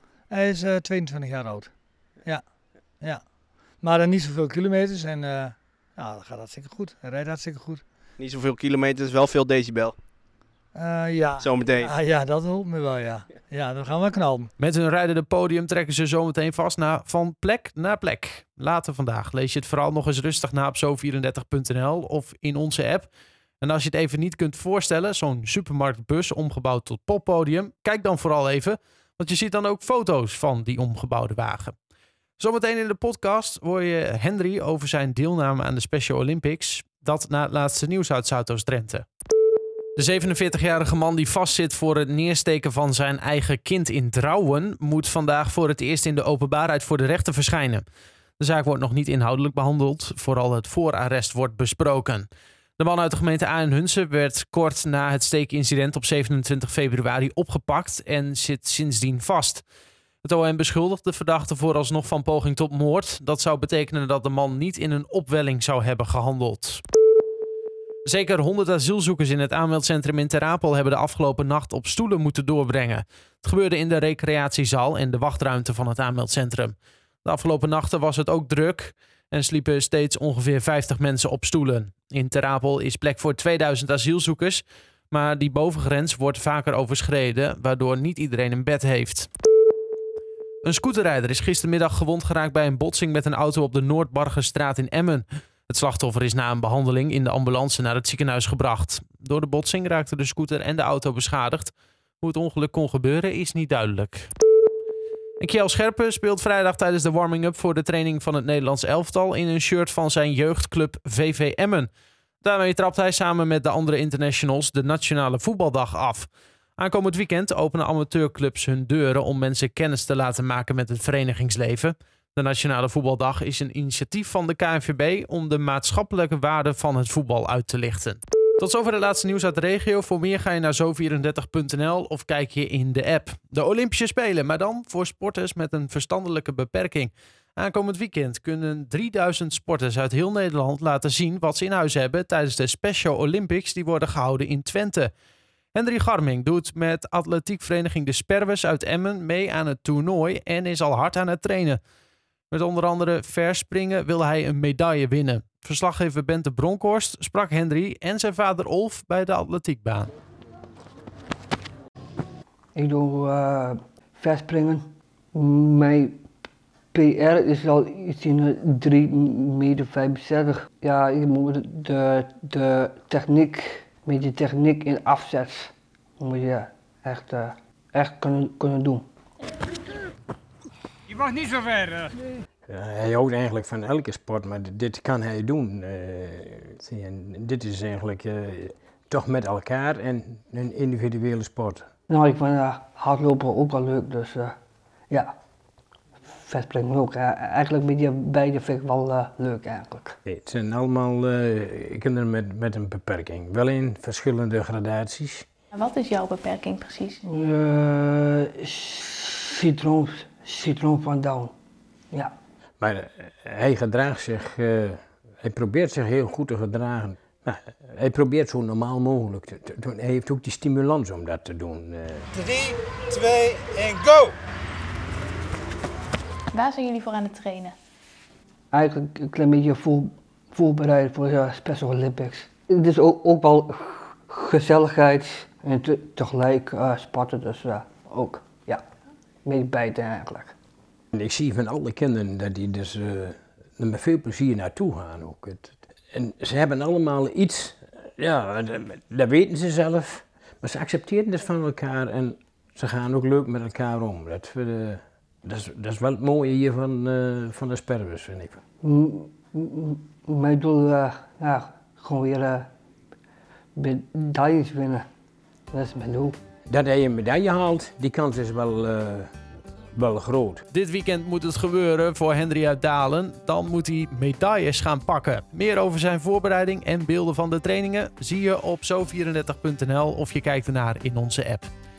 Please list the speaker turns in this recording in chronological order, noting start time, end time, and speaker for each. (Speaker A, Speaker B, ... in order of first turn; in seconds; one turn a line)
Speaker A: 0.3-1.7
Speaker A: 3.8-7.8
Speaker B: 8.2-9.9
Speaker A: 10.8-14.5
Speaker B: 11.4-11.9
Speaker C: 14.6-23.1
Speaker C: 23.6-31.7
Speaker C: 32.4-39.1
Speaker C: 40.0-47.9
Speaker C: 48.4-59.6
Speaker C: 60.2-66.8
Speaker C: 68.1-89.3
Speaker C: 90.6-104.3
Speaker C: 105.4-111.9
Speaker C: 112.4-116.3
Speaker C: 116.8-145.1
Speaker C: 145.7-151.8
Speaker C: 152.5-160.1
Speaker D: 162.8-166.2
Speaker D: 166.9-179.0
Speaker E: 182.7-191.9
Speaker D: 192.1-194.5
Speaker D: 196.5-200.2
Speaker E: 200.3-205.4
Speaker F: 205.7-207.2
Speaker D: 207.3-211.5
Speaker E: 212.8-222.3
Speaker F: 226.5-227.8
Speaker D: 228.7-238.8
Speaker D: 239.4-240.5
Speaker E: 241.1-258.6
Speaker D: 258.8-262.6
Speaker D: 263.8-265.1
Speaker D: 265.7-266.4
Speaker E: 266.7-269.3
Speaker E: 269.9-270.6
Speaker C: 270.7-281.7